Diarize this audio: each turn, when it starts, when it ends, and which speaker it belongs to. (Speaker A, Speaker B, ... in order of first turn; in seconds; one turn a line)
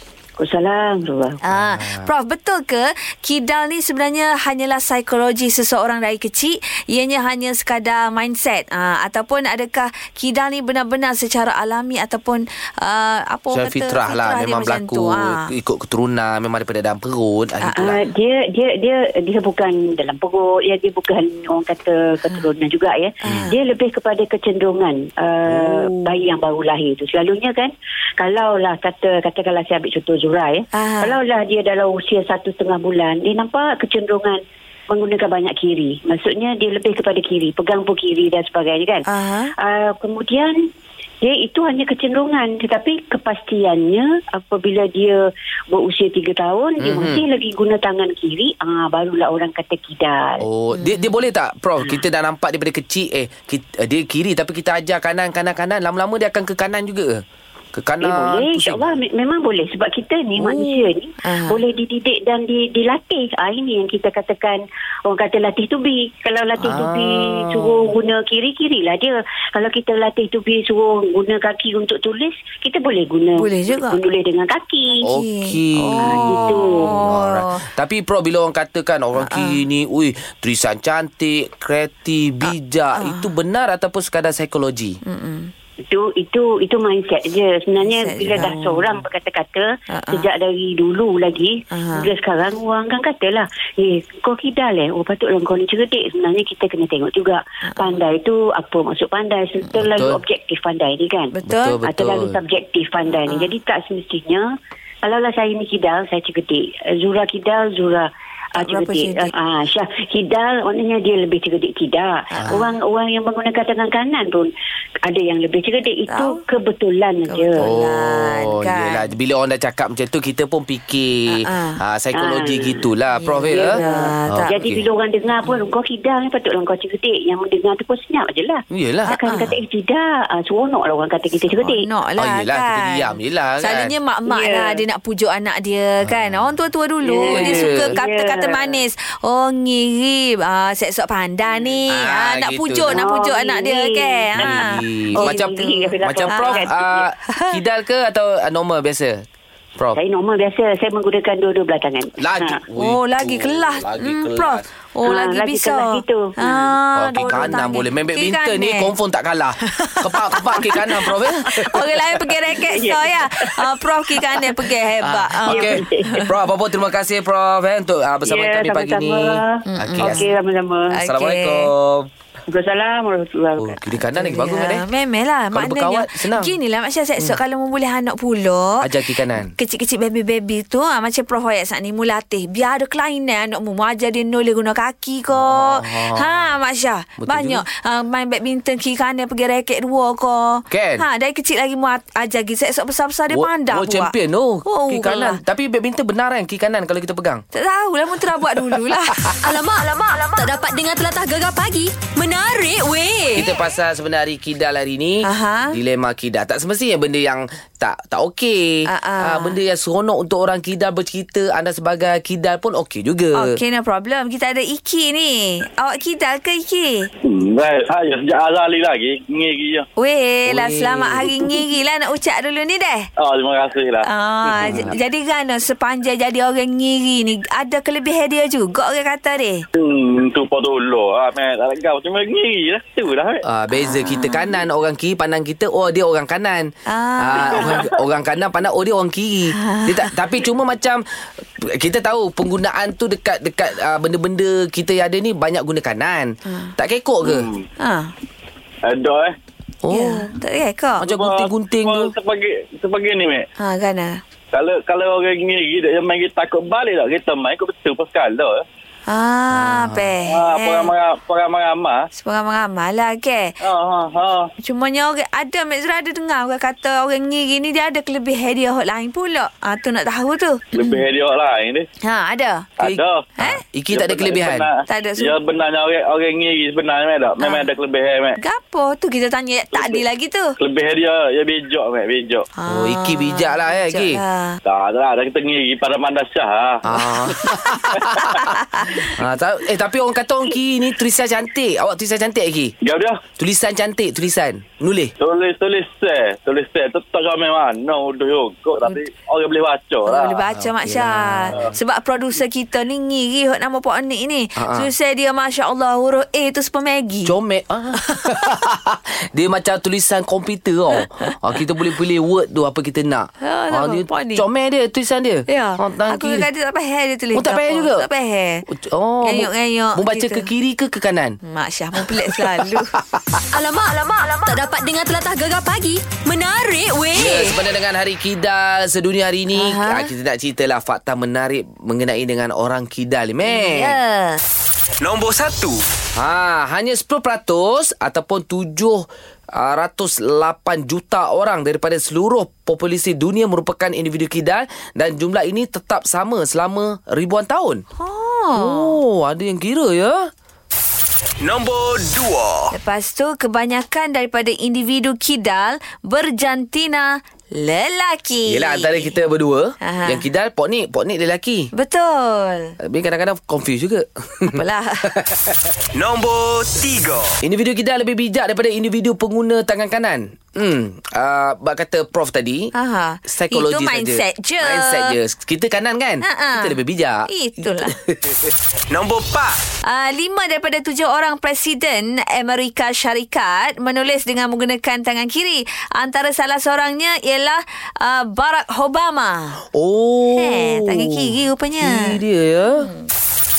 Speaker A: 0.4-1.4
Speaker B: 1.4-15.5
Speaker C: 1.5-2.1
Speaker C: 13.5-18.0
Speaker A: 17.7-39.0
Speaker B: 23.2-23.6
Speaker C: 25.5-25.9
Speaker B: 30.7-31.2
Speaker B: 39.0-39.5
Speaker A: 39.6-40.5
Speaker A: 41.2-45.1
Speaker A: 45.7-50.4
Speaker C: 46.8-47.2
Speaker C: 50.4-57.2
Speaker C: 57.7-59.0
Speaker A: 58.0-75.0
Speaker C: 60.4-60.9
Speaker B: 61.2-61.6
Speaker C: 66.6-67.8
Speaker B: 73.4-74.0
Speaker C: 75.0-85.0
Speaker B: 75.1-77.6
Speaker A: 75.9-76.8
Speaker B: 79.2-79.6
Speaker B: 82.4-83.3
Speaker B: 85.0-85.5
Speaker A: 85.9-101.3
Speaker B: 87.8-88.9
Speaker B: 89.9-90.3
Speaker B: 91.7-92.1
Speaker B: 97.7-98.0
Speaker C: 99.8-100.2
Speaker B: 101.3-101.8
Speaker C: 101.4-102.4
Speaker A: 101.8-104.4
Speaker B: 103.2-103.5
Speaker A: 105.0-114.5
Speaker B: 108.6-109.3
Speaker B: 112.3-112.7
Speaker C: 112.4-112.7
Speaker A: 115.0-117.6
Speaker B: 116.1-116.4
Speaker B: 117.2-119.1
Speaker C: 117.6-124.8
Speaker B: 121.3-121.8
Speaker A: 122.2-122.8
Speaker B: 123.1-124.6
Speaker A: 123.5-131.8
Speaker C: 128.7-129.1
Speaker B: 129.1-129.6
Speaker B: 131.6-146.7
Speaker C: 132.2-133.9
Speaker A: 134.2-134.8
Speaker C: 136.0-136.4
Speaker A: 137.0-138.8
Speaker C: 137.3-138.0
Speaker C: 141.9-143.0
Speaker A: 142.8-144.7
Speaker C: 144.4-149.2
Speaker A: 145.2-147.1
Speaker B: 147.3-147.6
Speaker A: 149.9-152.6
Speaker C: 152.2-154.7
Speaker B: 152.8-158.9
Speaker A: 155.0-156.8
Speaker C: 156.9-162.2
Speaker A: 157.4-157.7
Speaker B: 159.6-161.2
Speaker B: 161.7-166.2
Speaker A: 162.5-163.7
Speaker C: 165.0-170.3
Speaker A: 165.4-166.2
Speaker A: 168.2-170.9
Speaker B: 169.6-170.3
Speaker B: 170.9-171.7
Speaker C: 171.0-172.1
Speaker A: 172.5-173.8
Speaker C: 173.6-174.8
Speaker B: 174.1-194.1
Speaker C: 175.5-176.6
Speaker C: 178.8-179.5
Speaker C: 185.3-186.5
Speaker C: 187.2-187.6
Speaker C: 190.7-191.0
Speaker C: 193.3-197.4
Speaker B: 194.7-195.4
Speaker B: 197.5-199.2
Speaker C: 198.5-199.4
Speaker D: 199.4-203.5
Speaker C: 203.3-213.6
Speaker B: 205.2-205.8
Speaker B: 208.9-209.6
Speaker B: 213.3-217.1
Speaker E: 217.2-219.8
Speaker B: 220.0-223.1
Speaker C: 220.4-221.3
Speaker E: 223.2-224.0
Speaker B: 224.0-229.7
Speaker C: 224.5-224.9
Speaker E: 229.7-233.4
Speaker C: 233.4-241.0
Speaker B: 233.7-234.4
Speaker B: 236.9-237.8
Speaker B: 239.5-240.0
Speaker C: 241.6-247.5
Speaker B: 246.4-246.8
Speaker B: 247.3-248.1
Speaker E: 248.8-249.3
Speaker C: 249.8-250.3
Speaker B: 249.9-251.1
Speaker C: 251.0-252.1
Speaker E: 251.2-253.4
Speaker B: 253.6-254.2
Speaker E: 254.5-258.6
Speaker B: 259.1-260.9
Speaker C: 259.5-260.1
Speaker E: 260.3-262.0
Speaker B: 262.1-263.6
Speaker E: 263.6-264.4
Speaker B: 264.6-271.0
Speaker E: 270.7-271.8
Speaker B: 272.0-272.7
Speaker C: 272.8-274.6
Speaker E: 272.8-273.2
Speaker B: 273.4-273.6
Speaker E: 273.9-278.4
Speaker B: 274.9-275.4
Speaker B: 277.4-277.7
Speaker B: 278.4-280.6
Speaker E: 280.6-282.4
Speaker B: 282.5-284.6
Speaker C: 282.6-284.2
Speaker E: 284.6-286.8
Speaker C: 286.8-288.4
Speaker B: 286.9-287.7
Speaker B: 288.5-289.1
Speaker C: 289.0-292.7
Speaker E: 292.8-293.2
Speaker C: 293.4-295.1
Speaker E: 295.2-300.4
Speaker B: 300.0-307.3
Speaker C: 300.5-301.6
Speaker C: 304.6-304.9
Speaker C: 307.2-316.5
Speaker B: 313.4-314.4
Speaker B: 315.5-318.6
Speaker C: 317.3-318.1
Speaker C: 318.7-321.4
Speaker B: 319.2-320.5
Speaker B: 321.4-322.9
Speaker C: 321.9-323.4
Speaker D: 323.5-327.6
Speaker C: 327.1-334.0
Speaker B: 329.5-330.1
Speaker B: 333.4-334.4
Speaker F: 335.0-335.8
Speaker C: 336.1-347.8
Speaker B: 347.9-348.9
Speaker C: 348.5-350.3
Speaker F: 351.4-352.7
Speaker B: 352.7-359.1
Speaker C: 358.4-361.7
Speaker B: 359.8-360.2
Speaker B: 361.7-362.8
Speaker C: 362.8-365.5
Speaker B: 364.5-365.1
Speaker F: 365.9-367.4
Speaker C: 367.4-372.7
Speaker B: 372.7-375.2
Speaker C: 373.3-378.4
Speaker B: 376.2-377.9
Speaker F: 378.9-379.6
Speaker B: 379.8-389.6
Speaker C: 389.7-392.9
Speaker B: 390.3-392.2
Speaker B: 392.8-393.1